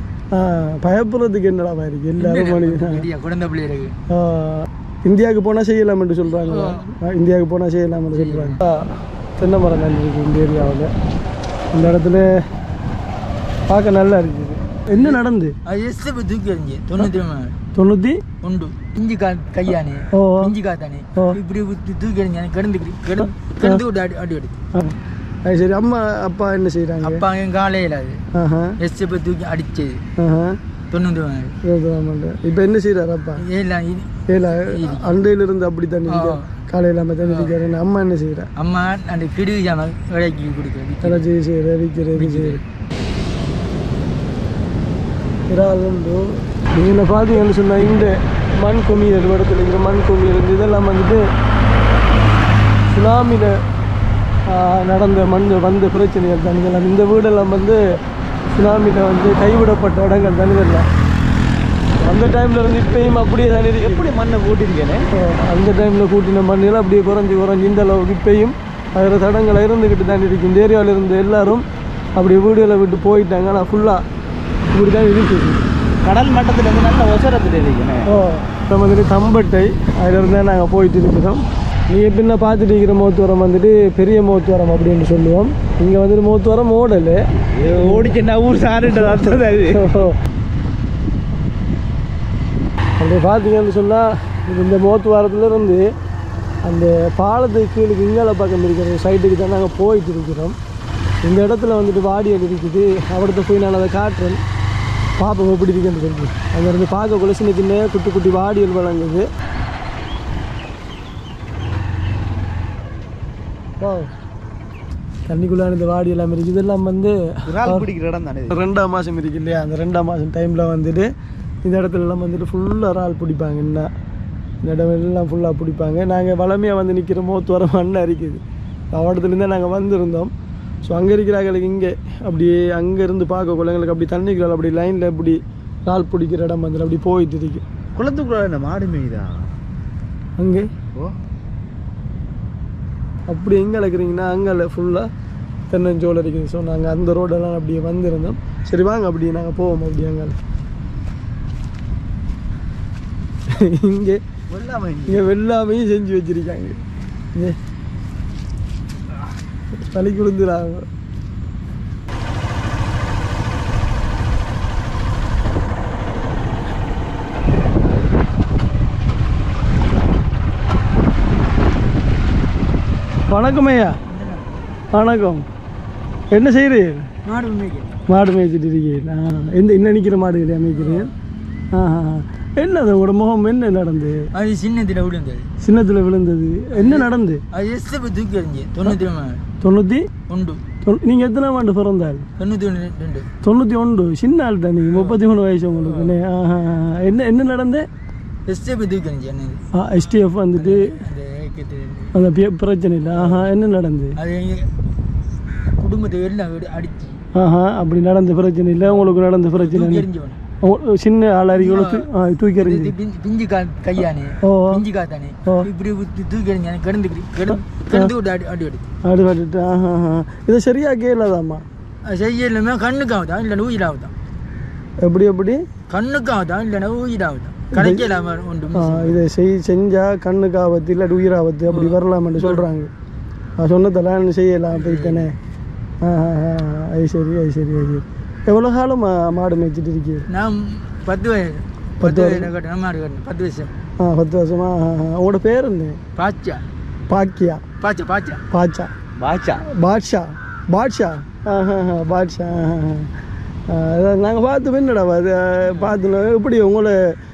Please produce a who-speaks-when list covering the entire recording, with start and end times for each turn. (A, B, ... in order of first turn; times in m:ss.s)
0:00.3-0:03.1 A
0:02.2-0:03.9 B
0:04.1-0:10.9 A
0:06.3-0:06.8 B
0:08.1-0:08.6 B
0:11.7-0:12.3 A
0:13.7-0:15.5 A
0:14.9-0:17.6 B
0:17.7-0:18.2 A
0:18.4-0:24.6 B
0:20.1-0:20.5 A
0:23.4-0:23.8 A
0:24.7-0:27.2 A
0:27.0-0:28.2 B
0:28.3-0:28.8 A
0:28.8-0:30.0 B
0:30.2-0:30.6 A
0:30.9-0:31.5 B
0:31.6-0:33.4 A
0:33.4-0:35.2 B
0:34.3-0:38.5 A
0:36.1-0:36.5 B
0:38.6-0:41.2 B
0:41.0-0:42.6 A
0:42.2-0:42.6 B
0:45.5-0:46.2 A
0:46.7-0:51.2 A
0:52.9-0:53.5 A
0:54.5-0:57.8 A
0:58.5-1:00.8 A
1:02.0-1:04.1 A
1:03.7-1:05.1 C
1:05.2-1:11.6 A
1:12.2-1:14.0 A
1:14.7-1:15.6 A
1:16.0-1:18.1 C
1:18.0-1:27.2 A
1:27.5-1:29.9 C
1:27.8-1:28.2 A
1:28.9-1:30.1 A
1:33.0-1:35.9 A
1:36.6-1:40.6 A
1:41.2-1:44.4 A
1:45.2-1:49.3 A
1:53.8-1:54.1 A
1:55.3-1:57.9 A
1:57.5-1:58.6 C
1:58.5-2:01.1 A
2:01.6-2:03.9 A
2:04.6-2:08.4 A
2:08.9-2:10.3 A
2:10.8-2:17.6 A
2:18.0-2:19.4 C
2:20.4-2:20.7 A
2:23.3-2:25.1 A
2:25.7-2:30.4 A
2:33.5-2:34.2 A
2:34.5-2:35.3 C
2:35.1-2:36.8 A
2:39.7-2:40.8 A
2:53.3-2:54.0 A
2:54.1-2:54.5 B
2:54.9-2:55.4 A
2:56.3-2:57.1 A
2:57.2-2:58.0 B
2:58.1-3:01.1 A
3:00.8-3:01.1 B
3:01.7-3:04.2 A
3:04.3-3:05.5 B
3:05.6-3:07.4 A
3:06.7-3:09.4 B
3:09.6-3:10.1 A
3:10.3-3:10.6 B
3:10.8-3:12.2 A
3:12.4-3:13.3 B
3:13.4-3:17.8 A
3:14.9-3:15.2 B
3:18.5-3:19.6 B
3:19.7-3:20.9 A
3:20.6-3:22.1 B
3:22.1-3:24.2 A
3:23.1-3:23.5 B
3:24.2-3:24.7 B
3:25.7-3:27.2 B
3:27.3-3:30.1 A
3:29.6-3:30.4 B
3:30.6-3:32.9 A
3:31.6-3:32.0 B
3:32.6-3:38.9 B
3:34.4-3:34.8 A
3:37.7-3:38.1 A
3:39.0-3:41.6 A
3:42.0-3:44.1 B
3:45.0-3:45.6 A
3:45.9-3:49.2 B
3:47.7-3:48.1 A
3:48.7-3:52.9 A
3:51.7-3:52.6 B
3:53.6-3:55.3 A
3:54.7-3:55.3 B
3:56.0-4:00.2 A
4:00.3-4:03.7 B
4:02.0-4:02.5 A
4:04.0-4:06.0 A
4:06.2-4:06.6 B
4:07.1-4:07.6 A
4:07.8-4:08.4 B
4:08.5-4:08.9 A
4:09.2-4:09.6 C
4:09.6-4:13.1 A
4:13.7-4:17.0 A
4:15.7-4:15.9 B